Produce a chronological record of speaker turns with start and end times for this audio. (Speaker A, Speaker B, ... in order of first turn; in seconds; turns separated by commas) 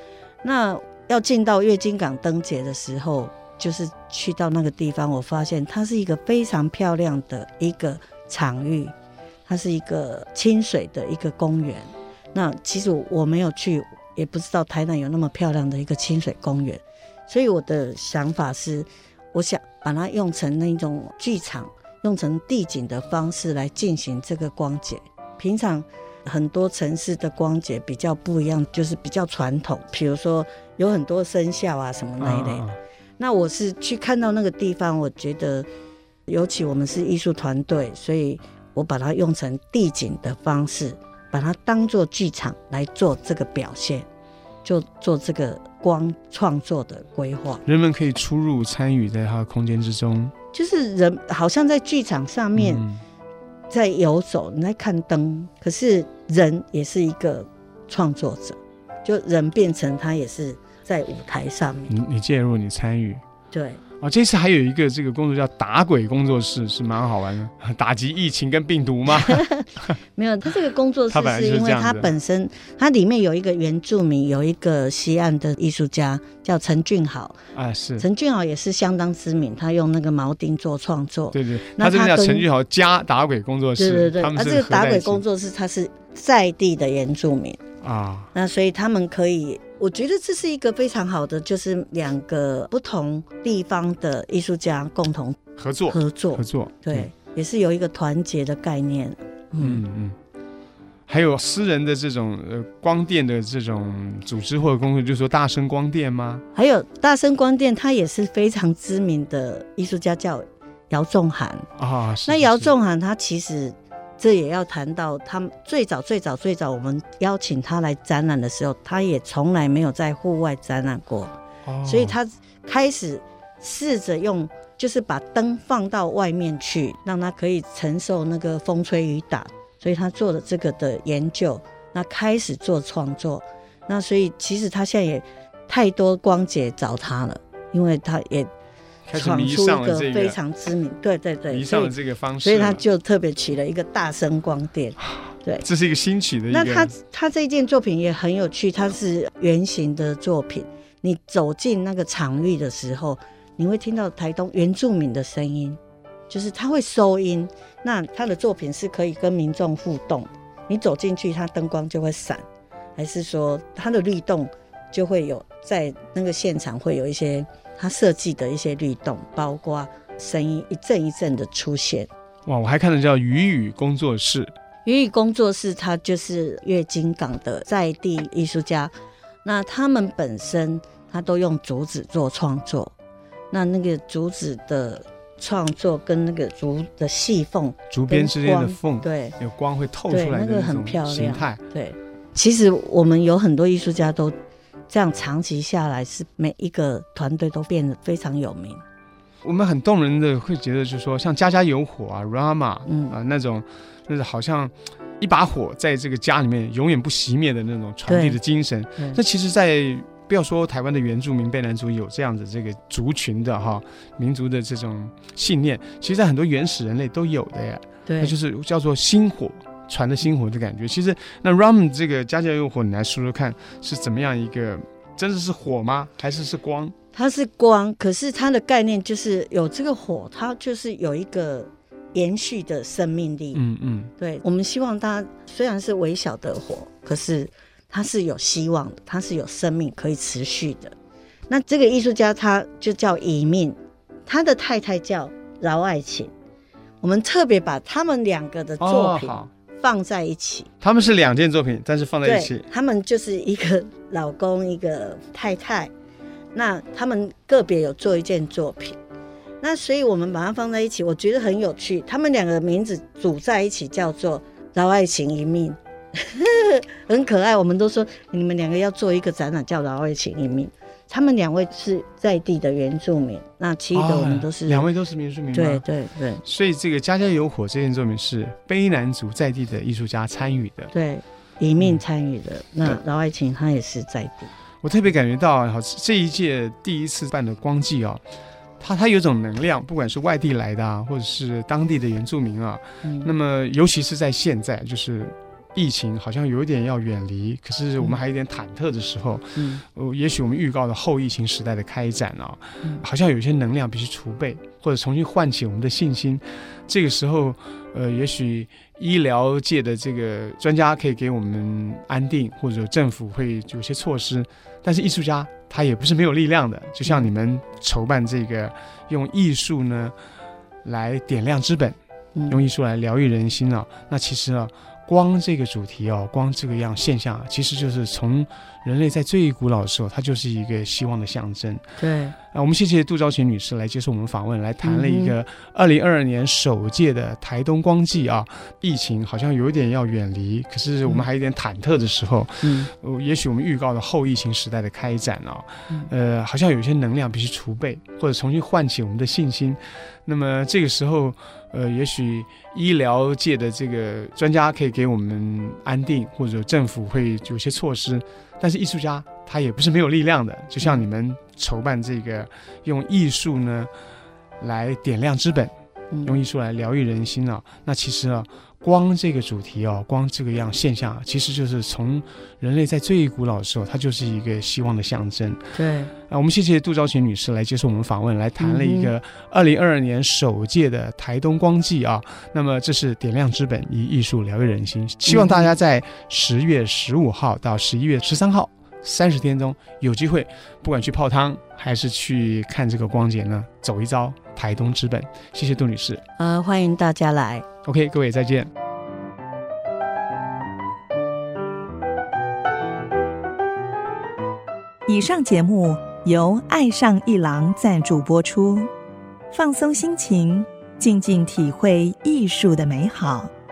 Speaker A: 0.4-8.9, Speaker A: 9.5-32.7, Speaker B: 32.2-32.8, Speaker A: 33.2-35.7, Speaker A: 36.3-44.1, Speaker A: 44.6-47.6, Speaker B: 47.7-50.3, Speaker A: 50.5-52.8, Speaker B: 52.5-53.0, Speaker A: 53.7-61.9, Speaker B: 61.9-63.2, Speaker A: 63.5-63.8, Speaker B: 64.0-69.9, Speaker A: 69.1-77.4, Speaker B: 71.1-72.1, Speaker B: 77.5-78.1, Speaker A: 78.0-82.5, Speaker B: 81.3-85.2, Speaker A: 83.8-87.6, Speaker B: 87.8-88.3, Speaker A: 88.3-99.8, Speaker B: 95.6-97.1, Speaker B: 99.6-100.2, Speaker B: 101.1-106.4, Speaker A: 106.5-111.7, Speaker B: 111.8-112.7, Speaker A: 112.3-121.3, Speaker B: 121.7-122.2, Speaker A: 121.8-138.5, Speaker B: 139.1-140.4, Speaker A: 139.1-145.7, Speaker B: 141.5-142.8, Speaker B: 145.6-146.9, Speaker A: 146.5-155.8, Speaker A: 156.3-162.4, Speaker A: 163.0-172.1, Speaker B: 172.5-174.5, Speaker A: 174.9-178.9, Speaker A: 179.4-182.9, Speaker A: 183.5-189.4, Speaker B: 187.9-191.6, Speaker A: 190.1-194.3, Speaker A: 194.9-198.8, Speaker B: 199.4-226.9, Speaker A: 202.9-203.2, Speaker A: 208.1-208.4, Speaker A: 218.1-218.3, Speaker A: 227.1-233.6, Speaker B: 233.5-234.1, Speaker A: 234.2-240.9, Speaker A: 241.5-246.3, Speaker A: 247.0-250.7, Speaker B: 248.8-249.5, Speaker B: 250.8-252.7, Speaker A: 252.2-255.9, Speaker A: 256.5-259.0, Speaker A: 259.6-274.9, Speaker B: 273.9-275.8, Speaker A: 275.5-276.4, Speaker B: 276.4-280.9, Speaker A: 280.9-284.5, Speaker B: 284.8-288.2, Speaker B: 288.8-320.1, Speaker A: 293.0-293.3, Speaker A: 299.6-299.8, Speaker B: 320.8-322.0, Speaker A: 322.4-322.6, Speaker B: 322.5-331.8, Speaker A: 332.0-332.4, Speaker B: 332.5-363.9, Speaker A: 334.8-335.4, Speaker A: 342.6-342.9, Speaker B: 364.6-365.7, Speaker A: 366.1-366.4, Speaker B: 366.2-375.6, Speaker A: 375.7-376.1, Speaker B: 376.3-396.2, Speaker A: 378.6-379.1, Speaker A: 385.3-385.7, Speaker A: 396.4-397.7, Speaker B: 397.8-398.7, Speaker C: 405.1-408.9, Speaker C: 409.5-413.5